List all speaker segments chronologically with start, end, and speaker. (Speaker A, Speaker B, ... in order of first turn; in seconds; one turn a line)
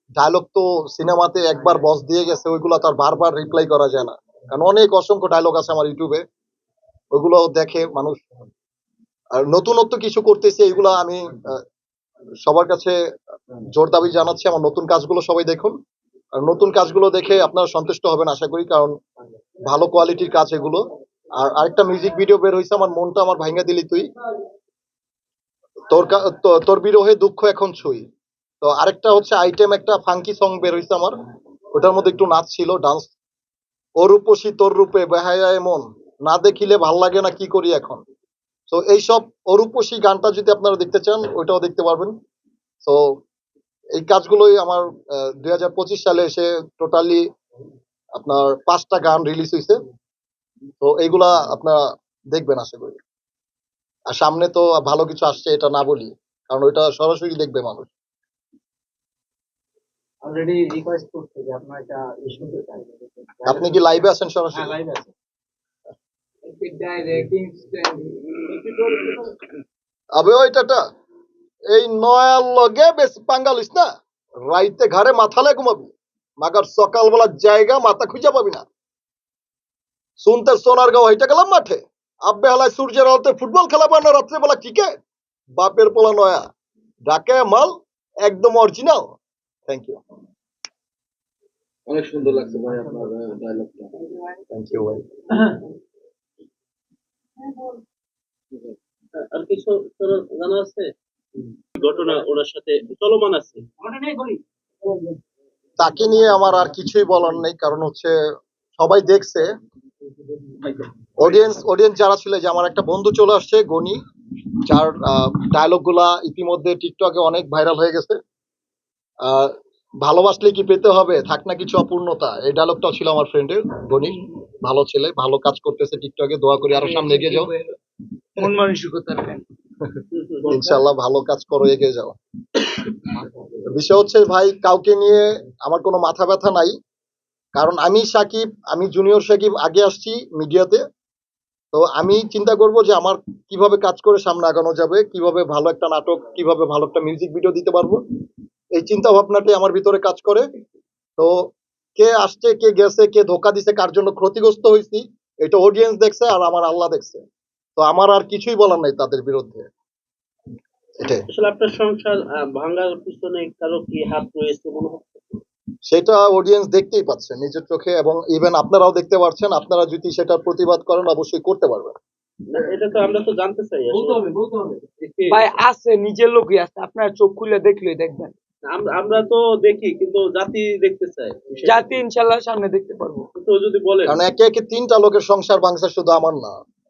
Speaker A: 0.2-6.2
Speaker A: 7.1-8.2
Speaker A: 9.4-11.6
Speaker A: 12.4-13.0
Speaker A: 13.7-15.8
Speaker A: 16.4-19.0
Speaker A: 19.7-20.8
Speaker A: 21.4-24.1
Speaker A: 25.9-28.1
Speaker A: 28.6-31.1
Speaker A: 31.7-33.1
Speaker A: 34.0-38.0
Speaker A: 38.7-42.1
Speaker A: 42.8-43.2
Speaker A: 44.0-47.2
Speaker A: 48.2-49.8
Speaker A: 50.8-51.8
Speaker A: 52.3-53.0
Speaker A: 54.1-57.9
Speaker B: 60.2-64.0
Speaker A: 63.5-64.8
Speaker B: 64.5-65.1
Speaker B: 66.5-69.3
Speaker A: 70.2-70.8
Speaker A: 71.7-73.9
Speaker A: 74.5-78.6
Speaker A: 80.2-84.9
Speaker A: 85.6-86.5
Speaker A: 87.1-89.2
Speaker A: 89.7-90.0
Speaker C: 91.9-94.0
Speaker A: 94.5-95.0
Speaker B: 97.5-97.7
Speaker D: 99.2-100.9
Speaker D: 101.8-103.7
Speaker B: 103.8-105.2
Speaker A: 105.8-108.2
Speaker A: 108.8-109.5
Speaker B: 110.6-111.4
Speaker A: 111.2-114.0
Speaker A: 114.7-118.2
Speaker A: 119.2-127.5
Speaker E: 126.7-127.8
Speaker E: 128.4-129.4
Speaker D: 130.1-130.6
Speaker A: 130.5-132.2
Speaker A: 133.7-136.8
Speaker A: 137.6-140.8
Speaker A: 141.7-148.0
Speaker A: 148.8-150.5
Speaker A: 151.2-157.2
Speaker A: 157.8-159.7
Speaker D: 161.3-165.4
Speaker A: 165.9-171.9
Speaker D: 172.5-174.2
Speaker B: 173.9-174.9
Speaker D: 175.0-175.5
Speaker E: 175.3-178.3
Speaker D: 178.7-181.9
Speaker E: 181.7-183.3
Speaker D: 183.4-184.2
Speaker A: 184.1-186.5